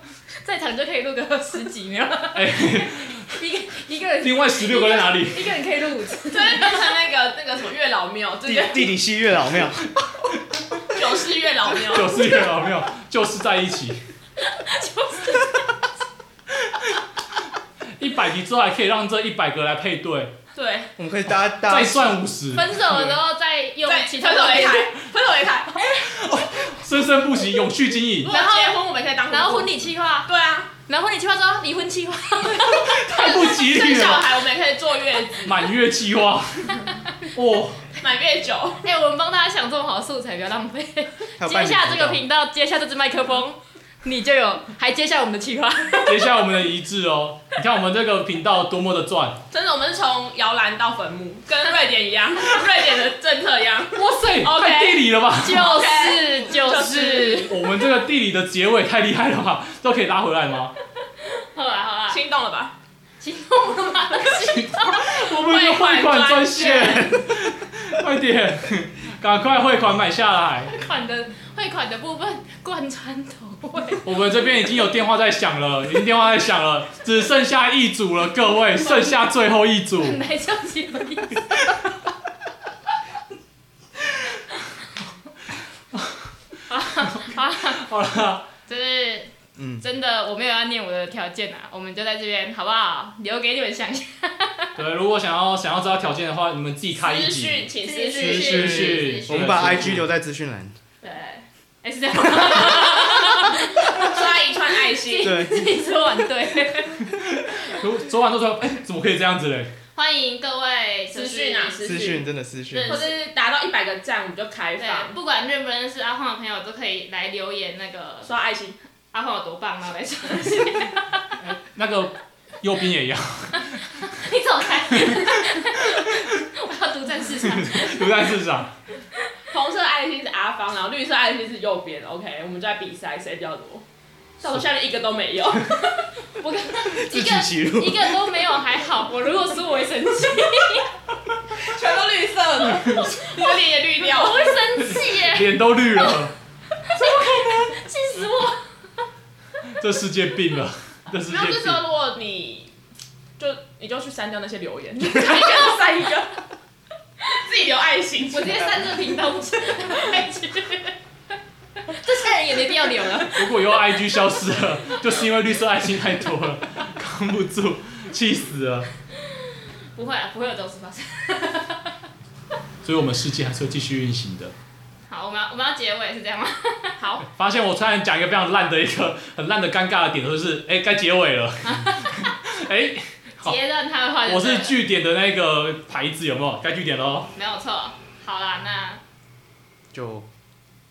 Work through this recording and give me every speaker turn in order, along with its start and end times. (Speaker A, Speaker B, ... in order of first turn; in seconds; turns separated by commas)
Speaker A: 0.4-6.9, Speaker B: 2.3-3.3, Speaker B: 4.2-5.5, Speaker C: 6.3-8.9, Speaker D: 8.4-9.9, Speaker C: 10.9-12.2, Speaker B: 11.8-14.0, Speaker A: 14.4-15.8, Speaker B: 16.7-16.9, Speaker B: 18.0-20.3, Speaker C: 20.5-20.9, Speaker D: 21.0-22.2, Speaker B: 21.6-22.7, Speaker A: 22.5-24.9, Speaker C: 23.8-26.0, Speaker B: 25.9-28.3, Speaker C: 28.2-30.7, Speaker A: 28.3-30.3, Speaker A: 30.9-33.5, Speaker B: 32.6-34.4, Speaker C: 33.1-35.7, Speaker B: 35.4-37.9, Speaker A: 36.8-37.1, Speaker C: 38.0-38.8, Speaker A: 38.8-46.2, Speaker D: 41.4-42.2, Speaker B: 46.0-49.4, Speaker C: 49.5-57.5, Speaker B: 53.9-55.7, Speaker A: 55.4-57.6, Speaker B: 57.5-60.7, Speaker A: 61.2-62.2, Speaker C: 62.1-62.7, Speaker A: 63.2-65.2, Speaker B: 64.6-70.7, Speaker C: 65.2-67.2, Speaker A: 70.7-74.0, Speaker B: 74.0-80.2, Speaker A: 80.0-81.7, Speaker B: 85.9-86.3, Speaker A: 86.7-87.8, Speaker B: 87.1-88.5, Speaker A: 88.7-94.7, Speaker D: 89.5-89.8, Speaker B: 94.8-100.1, Speaker C: 97.0-99.2, Speaker A: 97.8-99.9, Speaker D: 98.4-100.7, Speaker A: 101.0-104.3, Speaker C: 102.7-105.3, Speaker A: 104.8-107.1, Speaker D: 105.2-105.7, Speaker B: 107.0-109.7, Speaker A: 109.9-113.2, Speaker C: 111.1-112.2, Speaker D: 111.8-113.0, Speaker C: 112.8-115.2, Speaker A: 114.8-118.3, Speaker C: 118.2-118.8, Speaker A: 119.1-121.3, Speaker B: 121.4-124.0, Speaker A: 124.0-128.1, Speaker B: 124.9-126.4, Speaker B: 127.4-128.7, Speaker C: 129.5-133.8, Speaker C: 134.4-136.0, Speaker A: 136.4-140.9, Speaker D: 136.9-138.2, Speaker C: 141.5-144.7, Speaker B: 142.7-143.2, Speaker A: 144.0-145.5, Speaker B: 144.8-146.3, Speaker A: 146.8-148.7, Speaker C: 147.0-147.5, Speaker B: 149.8-151.8, Speaker C: 151.3-152.7, Speaker C: 153.4-156.4, Speaker A: 155.2-155.7, Speaker C: 157.3-158.8, Speaker A: 158.3-160.9, Speaker A: 161.9-163.6, Speaker C: 162.8-163.2, Speaker B: 163.3-168.9, Speaker A: 169.2-171.9, Speaker B: 172.8-174.5, Speaker A: 175.1-177.0, Speaker C: 177.0-177.3, Speaker B: 177.2-183.6, Speaker A: 181.7-182.3, Speaker A: 183.4-184.7, Speaker B: 184.2-187.3, Speaker A: 187.3-189.0, Speaker D: 189.9-190.2